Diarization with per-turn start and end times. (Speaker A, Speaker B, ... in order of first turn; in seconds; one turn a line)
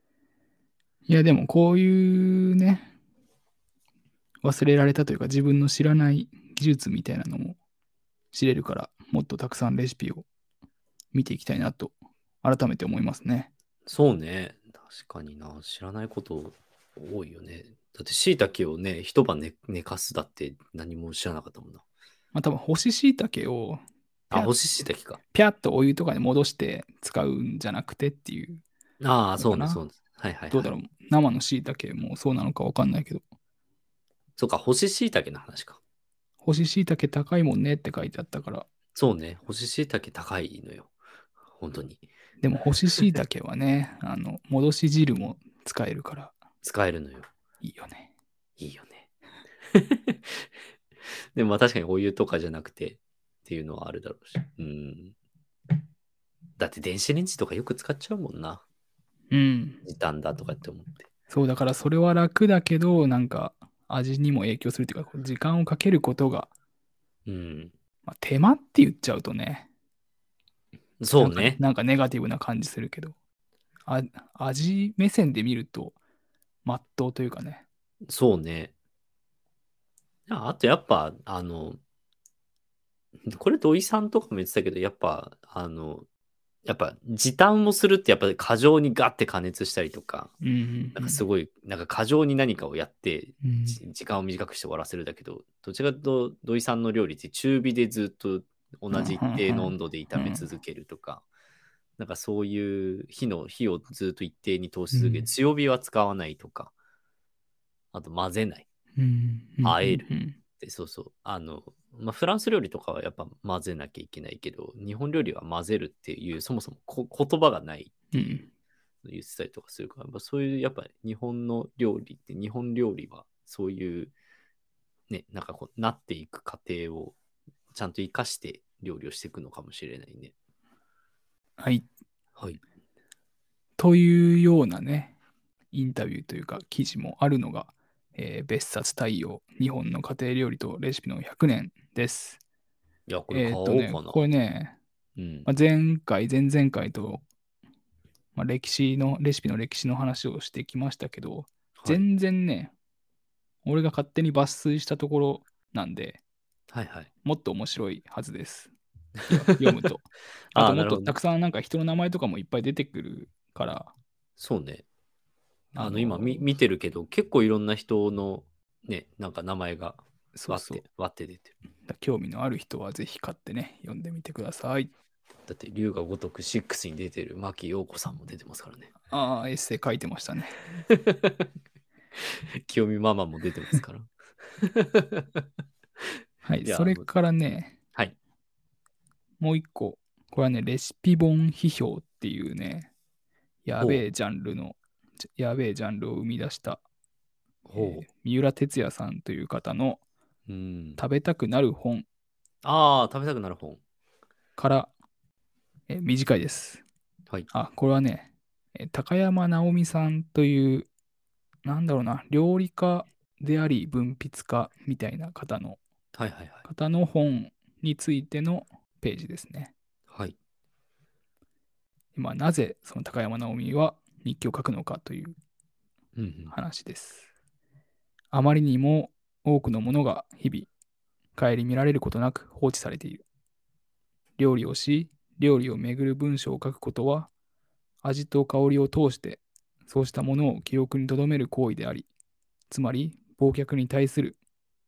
Speaker A: 1.1-2.9
Speaker A: 4.4-7.6
Speaker A: 8.3-10.2
Speaker A: 11.1-13.5
Speaker B: 13.9-21.8
Speaker A: 22.3-24.5
Speaker B: 24.3-25.2
Speaker A: 25.2-28.6
Speaker B: 29.0-30.7
Speaker A: 29.4-29.8
Speaker A: 30.5-33.2
Speaker B: 34.4-35.8
Speaker A: 36.4-38.7
Speaker B: 38.9-40.9
Speaker B: 41.6-42.0
Speaker A: 42.4-46.4
Speaker B: 46.6-47.3
Speaker A: 47.6-48.1
Speaker B: 48.6-49.1
Speaker B: 49.7-50.5
Speaker B: 51.4-55.1
Speaker B: 56.6-58.6
Speaker A: 59.3-59.8
Speaker B: 59.8-61.1
Speaker A: 61.3-66.5
Speaker B: 67.2-67.7
Speaker A: 68.1-69.7
Speaker B: 71.0-71.6
Speaker A: 71.2-73.1
Speaker A: 73.9-76.0
Speaker A: 76.6-77.6
Speaker B: 78.1-78.7
Speaker B: 80.3-81.8
Speaker B: 83.3-86.1
Speaker B: 86.6-90.3
Speaker A: 90.4-91.2
Speaker B: 91.0-101.2
Speaker A: 93.4-93.8
Speaker A: 98.9-100.5
Speaker B: 102.0-106.7
Speaker A: 104.9-105.3
Speaker B: 107.9-108.7
Speaker A: 109.0-110.4
Speaker B: 109.6-118.0
Speaker A: 118.1-118.5
Speaker B: 119.0-124.1
Speaker B: 125.1-127.2
Speaker B: 127.7-130.3
Speaker A: 131.6-131.9
Speaker A: 133.8-135.1
Speaker A: 135.7-142.4
Speaker B: 143.1-144.2
Speaker A: 143.3-144.8
Speaker B: 145.2-145.5
Speaker A: 145.5-147.2
Speaker A: 148.3-152.7
Speaker A: 153.6-156.2
Speaker B: 156.7-157.1
Speaker A: 157.2-158.7
Speaker B: 159.2-159.9
Speaker A: 159.3-163.9
Speaker B: 160.5-161.1
Speaker B: 164.4-164.8
Speaker A: 165.7-166.5
Speaker B: 165.8-171.5
Speaker A: 170.3-170.8
Speaker A: 171.9-174.9
Speaker B: 175.5-178.9
Speaker A: 179.1-180.6
Speaker B: 180.9-181.5
Speaker B: 182.2-185.4
Speaker A: 186.4-187.8
Speaker B: 186.6-187.0
Speaker A: 189.4-192.9
Speaker A: 193.6-196.8
Speaker B: 193.8-194.0
Speaker B: 197.7-198.1
Speaker A: 197.8-200.0
Speaker B: 200.5-201.0
Speaker A: 201.0-202.1
Speaker B: 202.6-203.8
Speaker A: 204.6-204.9
Speaker A: 205.9-206.8
Speaker A: 207.5-210.9
Speaker A: 211.6-215.8
Speaker B: 216.1-216.7
Speaker A: 216.6-219.7
Speaker B: 220.1-220.4
Speaker A: 222.1-225.4
Speaker B: 226.2-226.6
Speaker A: 226.5-227.3
Speaker A: 228.3-230.7
Speaker A: 231.3-233.2
Speaker A: 234.4-237.3
Speaker A: 238.0-242.1
Speaker A: 242.7-244.4